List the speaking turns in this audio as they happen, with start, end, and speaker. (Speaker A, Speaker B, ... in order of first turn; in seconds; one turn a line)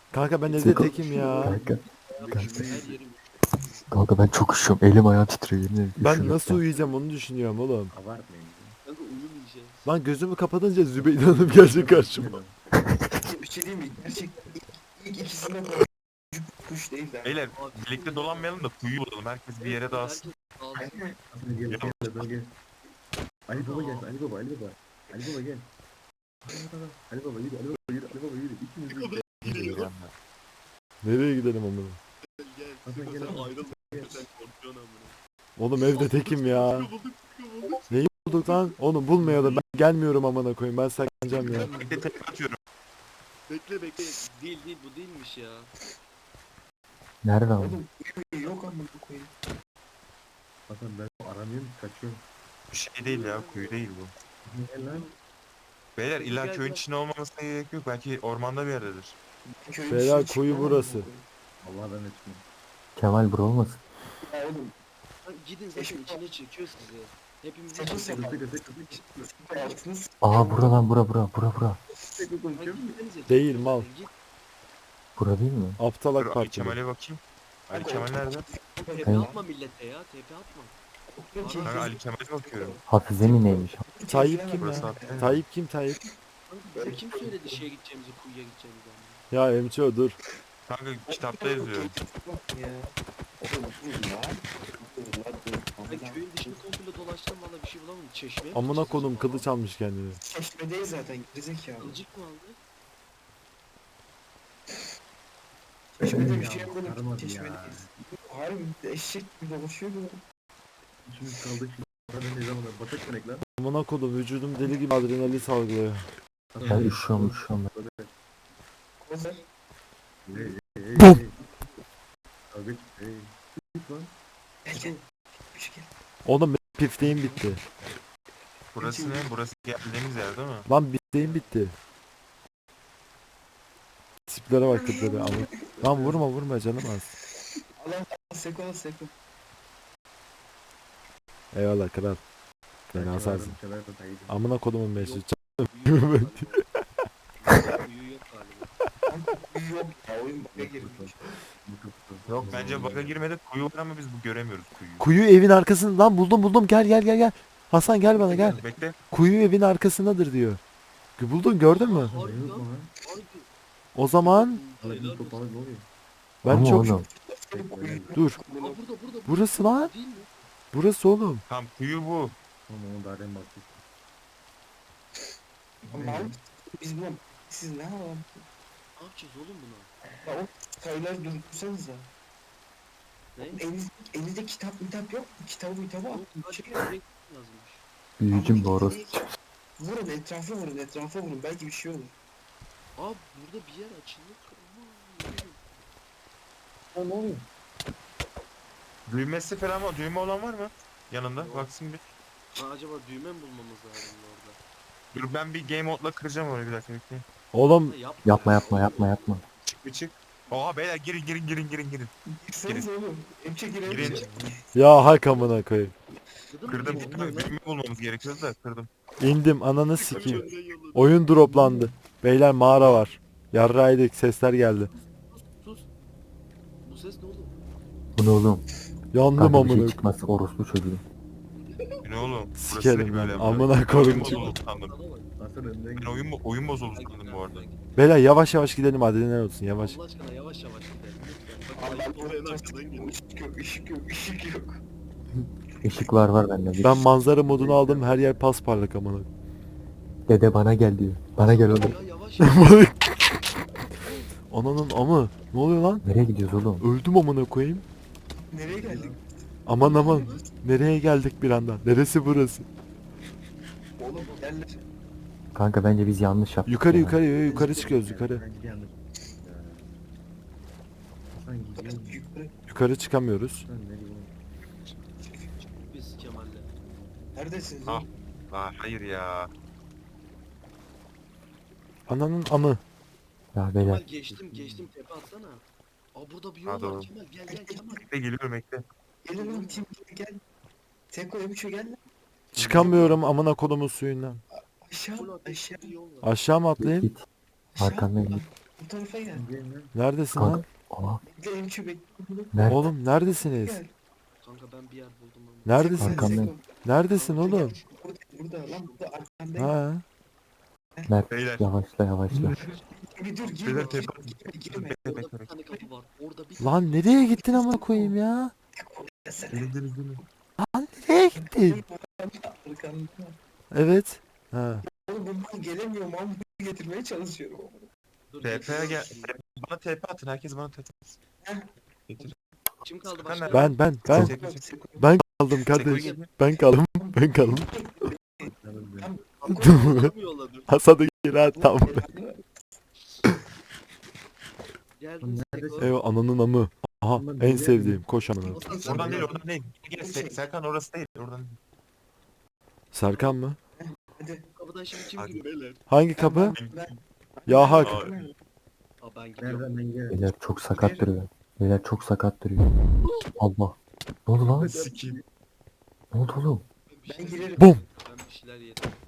Speaker A: 0.1-1.6
Speaker B: 0.5-1.6
Speaker C: 0.6-0.9
Speaker C: 1.4-1.8
Speaker D: 1.6-3.9
Speaker E: 2.2-3.1
Speaker C: 3.9-6.6
Speaker A: 6.0-7.9
Speaker E: 7.9-8.8
Speaker D: 8.8-9.9
Speaker A: 9.8-12.4
Speaker E: 11.1-12.6
Speaker B: 13.2-17.4
Speaker F: 17.2-20.3
Speaker D: 17.5-18.6
Speaker D: 19.6-21.0
Speaker B: 20.8-21.1
Speaker E: 21.3-22.6
Speaker F: 21.7-22.3
Speaker E: 23.5-25.7
Speaker D: 23.5-24.1
Speaker E: 26.4-29.4
Speaker D: 28.9-29.9
Speaker F: 29.4-30.1
Speaker A: 31.0-32.0
Speaker D: 32.3-35.2
Speaker E: 32.9-34.2
Speaker A: 35.6-36.9
Speaker D: 35.9-38.8
Speaker A: 37.9-41.7
Speaker E: 39.2-39.6
Speaker D: 41.3-42.1
Speaker F: 41.8-42.6
Speaker D: 43.5-45.7
Speaker C: 47.2-47.8
Speaker B: 47.6-49.3
Speaker E: 50.7-52.2
Speaker F: 52.7-54.1
Speaker D: 53.0-53.8
Speaker E: 54.4-55.1
Speaker D: 54.8-55.2
Speaker F: 56.0-59.2
Speaker D: 56.1-56.8
Speaker B: 59.5-61.2
Speaker A: 59.9-61.1
Speaker E: 61.6-62.5
Speaker C: 63.0-63.8
Speaker B: 64.2-64.7
Speaker D: 65.2-68.3
Speaker B: 65.8-66.2
Speaker B: 67.7-70.8
Speaker E: 68.1-69.7
Speaker C: 70.2-71.8
Speaker E: 72.1-73.0
Speaker D: 72.6-74.1
Speaker A: 73.3-73.9
Speaker C: 75.2-75.8
Speaker A: 75.8-76.8
Speaker F: 76.2-78.5
Speaker B: 77.7-79.4
Speaker D: 78.9-80.8
Speaker B: 81.1-85.4
Speaker D: 81.4-82.0
Speaker F: 81.7-82.8
Speaker C: 82.9-83.8
Speaker A: 84.1-86.0
Speaker F: 84.6-85.4
Speaker D: 86.5-89.2
Speaker B: 86.8-87.6
Speaker A: 89.3-90.2
Speaker F: 90.7-91.9
Speaker B: 91.1-96.6
Speaker D: 95.9-99.5
Speaker A: 98.5-100.2
Speaker B: 100.2-102.0
Speaker D: 101.8-102.6
Speaker B: 106.0-110.2
Speaker E: 106.0-107.9
Speaker E: 111.0-113.5
Speaker A: 113.6-116.1
Speaker E: 116.5-118.1
Speaker C: 116.6-117.7
Speaker B: 119.0-119.5
Speaker E: 120.3-121.4
Speaker E: 122.5-124.1
Speaker B: 124.7-125.0
Speaker E: 124.7-125.0
Speaker B: 125.5-125.9
Speaker A: 126.2-127.6
Speaker F: 128.7-130.7
Speaker B: 128.8-129.3
Speaker A: 130.7-131.7
Speaker D: 131.2-131.6
Speaker A: 134.3-137.1
Speaker B: 134.7-136.2
Speaker B: 137.4-139.1
Speaker A: 141.5-142.2
Speaker A: 142.9-143.6
Speaker E: 142.9-144.4
Speaker A: 144.3-146.6
Speaker D: 145.0-146.7
Speaker D: 147.4-148.7
Speaker B: 149.1-151.3
Speaker E: 150.6-153.2
Speaker F: 152.3-155.1
Speaker A: 155.0-158.6
Speaker F: 158.3-159.0
Speaker A: 159.1-160.6
Speaker A: 161.2-162.2
Speaker D: 161.7-163.5
Speaker E: 162.2-162.9
Speaker A: 163.9-164.6
Speaker D: 164.2-165.4
Speaker E: 164.8-165.8
Speaker A: 166.4-167.0
Speaker C: 166.5-167.1
Speaker B: 167.1-168.8
Speaker E: 167.5-168.2
Speaker D: 168.6-170.5
Speaker A: 169.3-169.9
Speaker A: 170.7-171.4
Speaker F: 171.5-172.3
Speaker E: 172.7-173.8
Speaker E: 175.9-176.3
Speaker B: 175.9-178.4
Speaker D: 179.0-179.9
Speaker B: 180.2-182.1
Speaker D: 183.4-183.6
Speaker B: 183.4-186.9
Speaker D: 186.1-187.8
Speaker C: 188.2-189.3
Speaker B: 188.3-189.2
Speaker B: 189.8-192.1
Speaker D: 193.0-195.9
Speaker E: 196.9-197.5
Speaker F: 199.1-202.0
Speaker D: 201.3-201.7
Speaker D: 202.6-204.6
Speaker F: 205.1-207.2
Speaker A: 207.5-207.9
Speaker D: 207.8-209.4
Speaker C: 208.2-209.4
Speaker F: 209.7-212.1
Speaker B: 212.3-214.6
Speaker F: 213.9-214.3
Speaker E: 213.9-214.6
Speaker A: 214.7-215.9
Speaker D: 216.5-217.7
Speaker F: 216.7-218.9
Speaker E: 216.8-217.5
Speaker A: 219.2-224.9
Speaker D: 219.9-221.4
Speaker B: 220.1-220.5
Speaker F: 222.7-223.1
Speaker D: 224.9-225.9
Speaker D: 226.8-227.6
Speaker C: 228.2-228.6
Speaker A: 229.1-230.1
Speaker C: 229.3-231.0
Speaker D: 231.6-232.5
Speaker F: 232.0-234.9
Speaker A: 232.6-234.6
Speaker D: 233.6-235.3
Speaker E: 235.4-236.4
Speaker F: 236.0-237.6
Speaker D: 236.9-238.0
Speaker A: 238.0-240.0
Speaker D: 239.8-243.1
Speaker B: 241.8-244.8
Speaker C: 245.8-247.1
Speaker A: 246.8-249.3
Speaker E: 247.4-248.4
Speaker C: 250.3-252.0
Speaker D: 251.4-253.0
Speaker A: 252.4-253.1
Speaker A: 254.5-256.0
Speaker C: 256.0-256.9
Speaker A: 256.8-257.9
Speaker B: 258.3-259.2
Speaker E: 258.7-259.2
Speaker A: 259.7-262.7
Speaker B: 259.8-260.4
Speaker D: 259.8-260.4
Speaker B: 264.0-264.8
Speaker D: 264.1-264.9
Speaker C: 265.6-267.2
Speaker A: 266.7-268.4
Speaker B: 267.4-268.0
Speaker E: 267.5-269.9
Speaker E: 271.3-272.2
Speaker B: 271.8-272.5
Speaker A: 272.7-273.6
Speaker E: 273.6-274.3
Speaker D: 275.7-276.7
Speaker E: 276.9-277.1
Speaker B: 277.4-278.1
Speaker F: 277.9-279.5
Speaker A: 282.1-282.8
Speaker C: 283.6-284.0
Speaker D: 283.8-285.6
Speaker E: 284.5-284.9
Speaker D: 286.1-288.1
Speaker F: 286.7-287.1
Speaker B: 287.5-287.9
Speaker F: 288.0-288.8
Speaker B: 289.2-290.4
Speaker D: 289.3-289.9
Speaker B: 291.1-292.0
Speaker A: 292.6-294.4
Speaker B: 292.6-293.1
Speaker B: 294.8-295.9
Speaker D: 295.2-296.3
Speaker A: 296.2-297.1
Speaker C: 296.8-297.2
Speaker B: 297.8-299.5
Speaker C: 297.8-298.4
Speaker E: 299.3-299.9
Speaker A: 299.9-300.7
Speaker C: 300.4-301.2
Speaker B: 301.2-302.6
Speaker C: 302.5-302.9
Speaker A: 302.7-303.8
Speaker B: 303.4-303.9
Speaker D: 304.4-305.9
Speaker A: 305.6-307.8
Speaker B: 305.8-306.6
Speaker C: 306.0-306.5
Speaker D: 307.1-307.8
Speaker B: 307.4-309.7
Speaker D: 308.6-309.0
Speaker A: 309.6-310.0
Speaker C: 311.1-312.6
Speaker F: 311.3-311.7
Speaker B: 312.4-315.1
Speaker D: 313.4-314.1
Speaker F: 313.6-315.5
Speaker D: 315.1-317.3
Speaker A: 316.6-318.5
Speaker B: 317.4-318.2
Speaker B: 318.8-319.8
Speaker F: 319.5-320.2
Speaker A: 320.6-321.8
Speaker B: 321.4-323.4
Speaker A: 323.7-324.9
Speaker B: 324.9-327.9
Speaker D: 328.3-329.4
Speaker F: 328.4-331.2
Speaker B: 328.6-329.0
Speaker B: 331.4-332.3
Speaker F: 332.1-332.3
Speaker D: 332.8-333.9
Speaker F: 333.1-334.6
Speaker A: 333.5-334.4
Speaker B: 334.1-335.1
Speaker A: 335.0-337.7
Speaker F: 335.7-336.3
Speaker D: 335.8-336.3
Speaker B: 337.0-340.1
Speaker E: 338.5-339.1
Speaker D: 339.4-340.7
Speaker A: 339.6-340.1
Speaker A: 340.7-342.1
Speaker B: 341.5-342.4
Speaker D: 345.0-346.0
Speaker E: 345.2-345.9
Speaker A: 345.8-348.6
Speaker E: 347.1-348.1
Speaker B: 348.5-349.4
Speaker D: 348.5-349.4
Speaker F: 348.8-351.6
Speaker B: 350.0-350.4
Speaker A: 352.9-353.6
Speaker B: 353.8-354.5
Speaker D: 354.6-355.8
Speaker A: 355.9-356.6
Speaker B: 356.2-358.4
Speaker A: 357.5-358.0
Speaker F: 357.8-358.3
Speaker D: 359.0-359.7
Speaker E: 359.4-360.2
Speaker C: 360.1-362.7
Speaker B: 360.7-361.1
Speaker D: 363.0-363.3
Speaker C: 363.4-364.7
Speaker E: 364.5-365.2
Speaker F: 364.8-365.2
Speaker C: 366.1-366.6
Speaker D: 366.9-369.0
Speaker B: 367.1-367.7
Speaker A: 367.6-367.8